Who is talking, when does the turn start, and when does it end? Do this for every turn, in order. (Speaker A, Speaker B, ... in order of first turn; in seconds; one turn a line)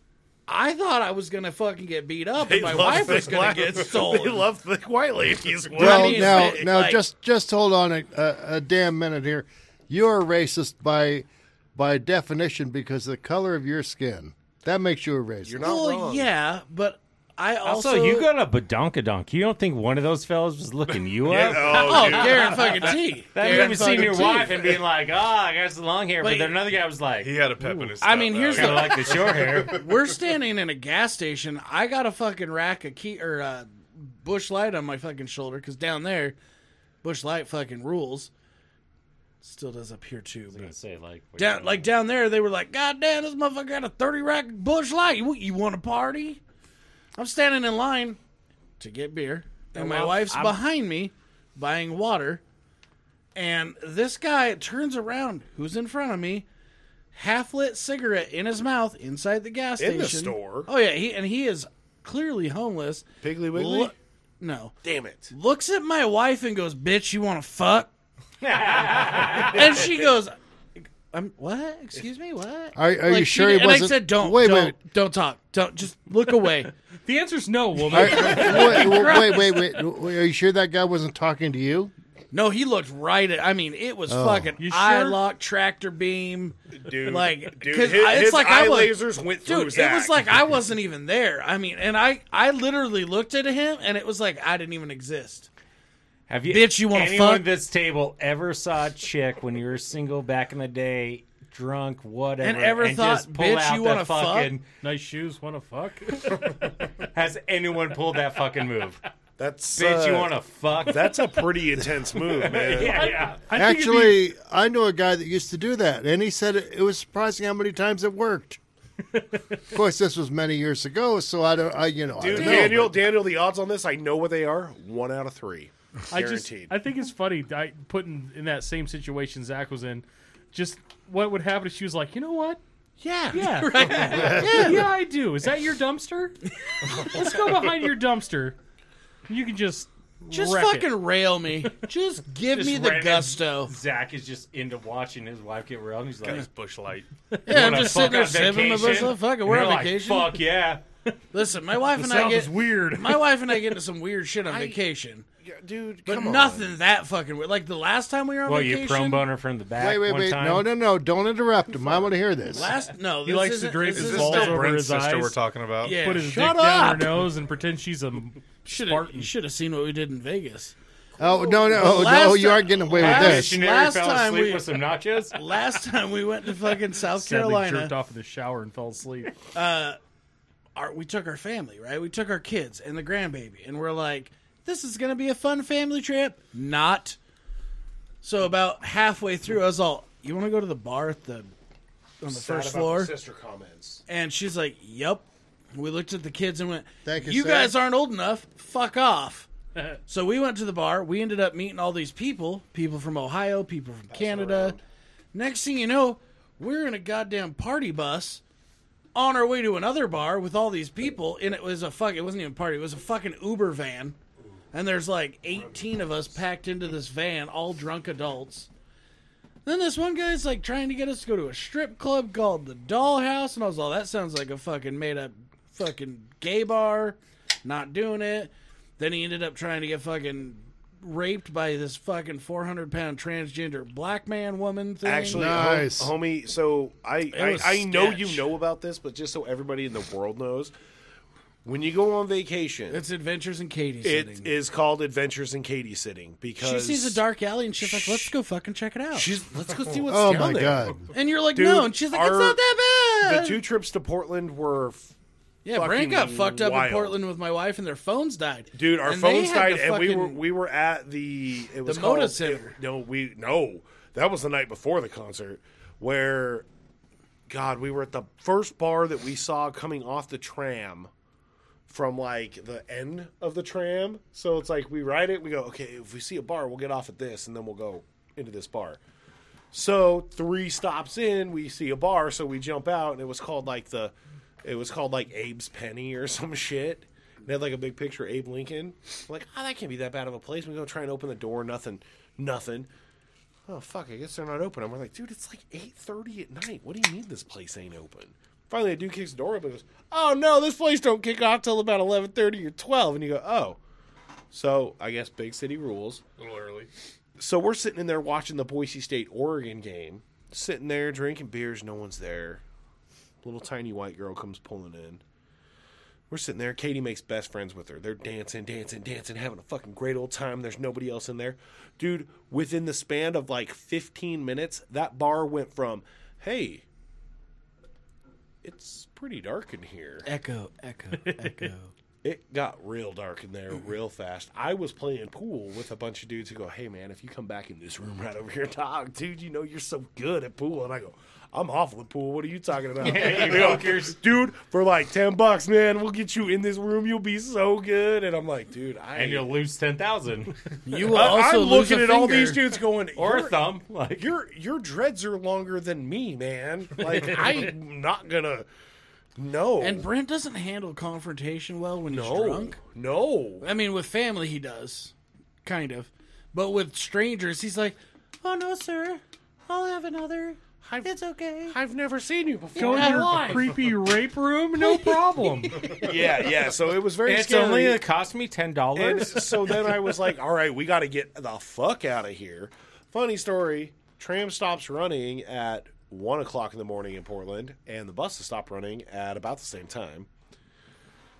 Speaker A: 0.5-4.5
Speaker B: 2.4-6.6
Speaker A: 5.7-7.0
Speaker C: 5.8-15.6
Speaker B: 15.4-16.3
Speaker A: 15.6-18.3
Speaker D: 17.6-27.4
Speaker B: 21.3-24.7
Speaker A: 21.5-24.7
Speaker A: 26.2-26.5
Speaker E: 27.2-30.0
Speaker A: 27.7-36.4
Speaker D: 28.5-29.8
Speaker A: 37.0-38.3
Speaker A: 39.4-40.7
Speaker D: 40.5-41.9
Speaker A: 41.4-46.4
Speaker A: 47.1-48.2
Speaker A: 48.8-52.4
Speaker B: 49.7-50.6
Speaker A: 53.3-56.5
Speaker A: 57.1-64.8
Speaker B: 59.8-60.7
Speaker B: 63.2-63.9
Speaker B: 64.8-65.3
Speaker A: 65.3-67.9
Speaker D: 68.4-69.9
Speaker A: 69.4-76.7
Speaker C: 72.8-74.7
Speaker F: 77.0-79.1
Speaker C: 77.9-81.9
Speaker A: 78.0-79.7
Speaker A: 82.3-95.5
Speaker C: 84.1-84.5
Speaker F: 84.6-85.2
Speaker B: 86.7-90.2
Speaker D: 96.3-104.7
Speaker A: 96.5-97.5
Speaker A: 102.4-104.5
Speaker F: 104.8-106.3
Speaker D: 106.3-109.0
Speaker B: 109.4-113.2
Speaker D: 109.7-111.4
Speaker D: 112.2-113.4
Speaker F: 112.8-114.2
Speaker C: 113.5-118.6
Speaker C: 119.7-123.0
Speaker B: 122.2-126.7
Speaker F: 126.1-132.6
Speaker B: 133.0-133.4
Speaker F: 133.3-138.6
Speaker A: 133.3-134.9
Speaker D: 134.0-134.4
Speaker B: 134.1-134.4
Speaker F: 139.3-141.0
Speaker A: 140.3-143.7
Speaker D: 142.5-146.5
Speaker E: 146.2-147.1
Speaker F: 147.3-147.8
Speaker A: 147.4-150.4
Speaker D: 147.5-150.8
Speaker A: 151.3-155.2
Speaker F: 151.8-153.6
Speaker B: 154.5-154.8
Speaker B: 155.4-156.7
Speaker A: 156.1-159.2
Speaker D: 158.4-160.7
Speaker C: 159.8-162.7
Speaker A: 162.5-164.7
Speaker F: 163.2-169.3
Speaker E: 163.8-166.0
Speaker A: 165.8-166.5
Speaker B: 166.2-167.2
Speaker A: 168.7-170.7
Speaker C: 171.2-173.6
Speaker A: 171.4-177.9
Speaker D: 172.9-175.4
Speaker F: 177.1-179.4
Speaker A: 179.5-180.0
Speaker A: 180.7-187.2
Speaker A: 188.2-191.5
Speaker A: 192.2-193.1
Speaker B: 192.3-194.0
Speaker A: 194.1-199.5
Speaker C: 197.0-197.7
Speaker A: 200.1-204.8
Speaker B: 204.1-204.8
Speaker A: 205.3-208.4
Speaker A: 209.1-214.2
Speaker A: 214.7-218.7
Speaker A: 219.6-235.6
Speaker B: 235.0-240.7
Speaker C: 235.3-236.1
Speaker A: 237.3-238.5
Speaker B: 241.6-243.0
Speaker A: 242.9-244.5
Speaker B: 244.0-247.2
Speaker A: 246.6-249.3
Speaker B: 247.8-248.3
Speaker B: 249.1-252.6
Speaker C: 250.1-251.0
Speaker A: 251.1-253.6
Speaker B: 253.2-255.1
Speaker A: 255.6-260.4
Speaker B: 255.7-257.2
Speaker B: 258.7-266.7
Speaker A: 261.8-262.8
Speaker B: 267.5-271.1
Speaker B: 271.9-279.0
Speaker B: 279.7-292.9
Speaker B: 293.7-303.8
Speaker B: 304.5-306.2
Speaker E: 306.4-306.9
Speaker B: 307.4-312.6
Speaker B: 313.4-315.2
Speaker B: 316.3-326.8
Speaker B: 328.6-330.2
Speaker A: 330.2-331.9
Speaker F: 331.2-331.7
Speaker B: 332.2-349.5
Speaker D: 343.0-344.2
Speaker D: 349.1-351.2
Speaker A: 350.9-352.6
Speaker B: 351.1-353.7
Speaker D: 353.1-354.3
Speaker B: 354.2-358.7
Speaker D: 357.0-357.6
Speaker B: 359.4-360.1
Speaker A: 359.8-362.8
Speaker B: 362.1-363.6
Speaker A: 363.6-371.8
Speaker B: 370.8-371.1
Speaker B: 371.7-373.8
Speaker F: 372.7-376.0
Speaker A: 372.8-373.5
Speaker B: 375.8-378.0
Speaker D: 377.2-379.9
Speaker B: 378.9-390.3